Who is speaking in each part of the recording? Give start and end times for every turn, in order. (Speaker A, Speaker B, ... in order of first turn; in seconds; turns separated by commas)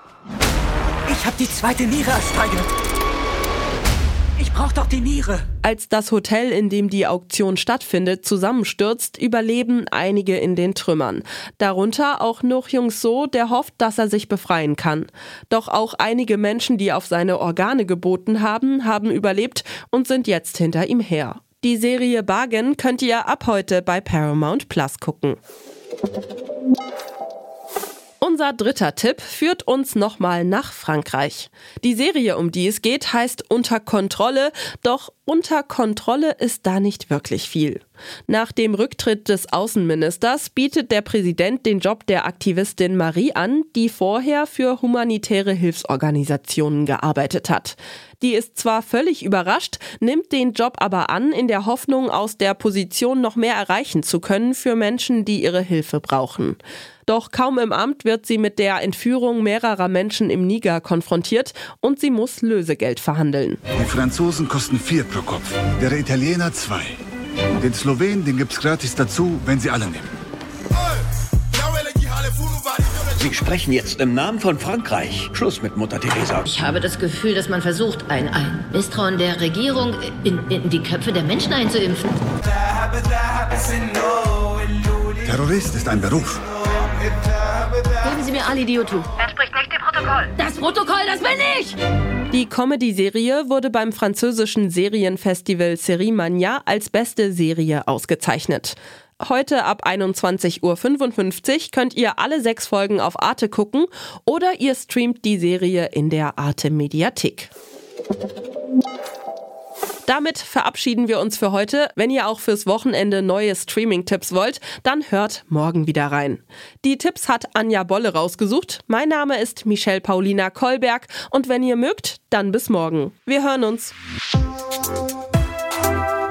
Speaker A: 1.1-2.7, Speaker A: 4.4-5.4, Speaker B: 5.6-25.4, Speaker B: 28.2-63.6, Speaker C: 63.7-67.0, Speaker C: 67.6-70.1, Speaker D: 73.2-76.5, Speaker E: 76.5-82.1, Speaker C: 85.2-86.4, Speaker E: 88.0-91.8, Speaker B: 92.3-107.5, Speaker B: 110.1-123.9